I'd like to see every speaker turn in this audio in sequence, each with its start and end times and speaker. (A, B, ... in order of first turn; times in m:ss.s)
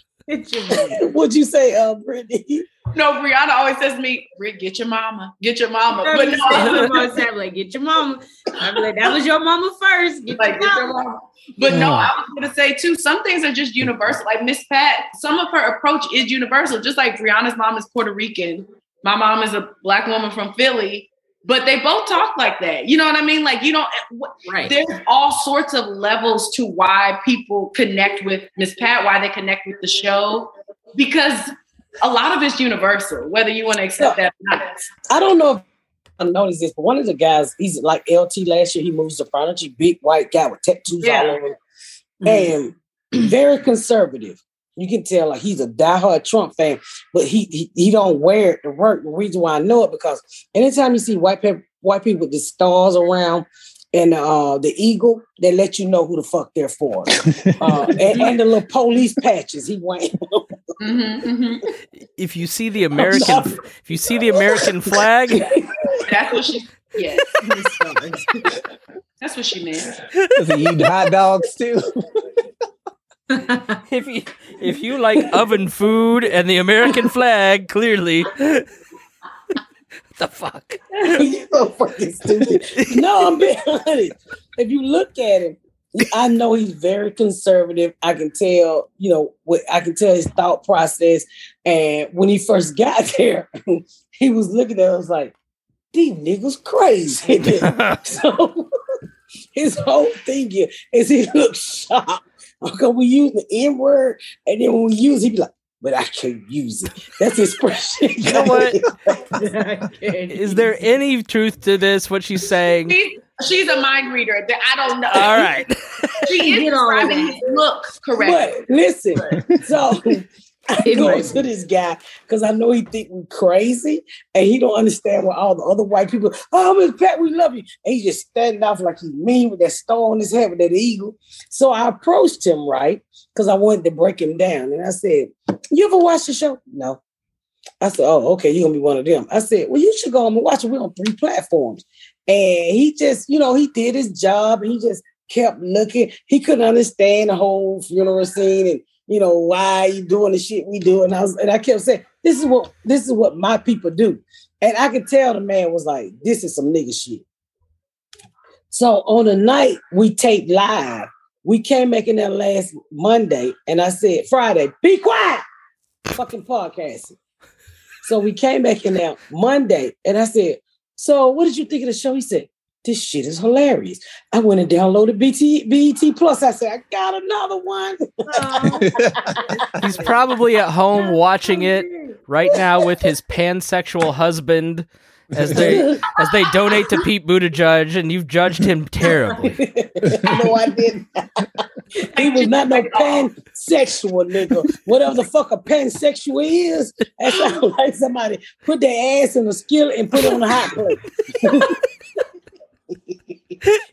0:00.3-0:01.0 A
0:00.7-0:02.7 B
0:02.9-0:07.0 C
0:06.0-0:10.9 A
0:10.4-0:31.5 C
0:24.5-0:24.7 A
0:32.0-0:34.8 C
0:35.1-0:35.6 B
0:36.2-0:41.6 B
0:41.0-0:41.4 C
0:42.2-1:00.6 B
0:57.2-0:57.6 D
1:00.8-1:01.6 C
1:02.2-1:05.5 E
1:02.9-1:06.0 B
1:06.0-1:07.2 C
1:07.4-1:08.5 A
1:09.2-1:10.0 C
1:10.4-1:12.2 D
1:13.3-1:13.6 A
1:13.9-1:18.7 E
1:20.2-1:21.0 E
1:21.0-1:35.3 B
1:22.8-1:23.0 E
1:35.9-1:38.7 B
1:37.6-1:38.0 E
1:39.5-1:49.2 B
1:48.2-1:48.8 E
1:49.3-1:50.8 A
1:50.3-1:53.0 E
1:52.9-1:55.5 C
1:55.1-1:56.4 E
1:56.2-1:58.5 C
1:56.3-1:57.6 A
1:58.2-2:17.0 B
2:00.8-2:01.4 A
2:17.8-2:37.2 B
2:38.7-2:45.4 B
2:46.1-2:47.2 B
2:48.0-2:58.9 B
2:58.3-2:58.8 A
2:58.8-2:59.9 D
2:59.8-3:09.6 E
3:01.6-3:02.1 A
3:05.3-3:05.8 D
3:05.6-3:06.0 B
3:09.3-3:21.8 B
3:10.1-3:10.5 D
3:12.1-3:13.3 C
3:22.9-3:23.5 B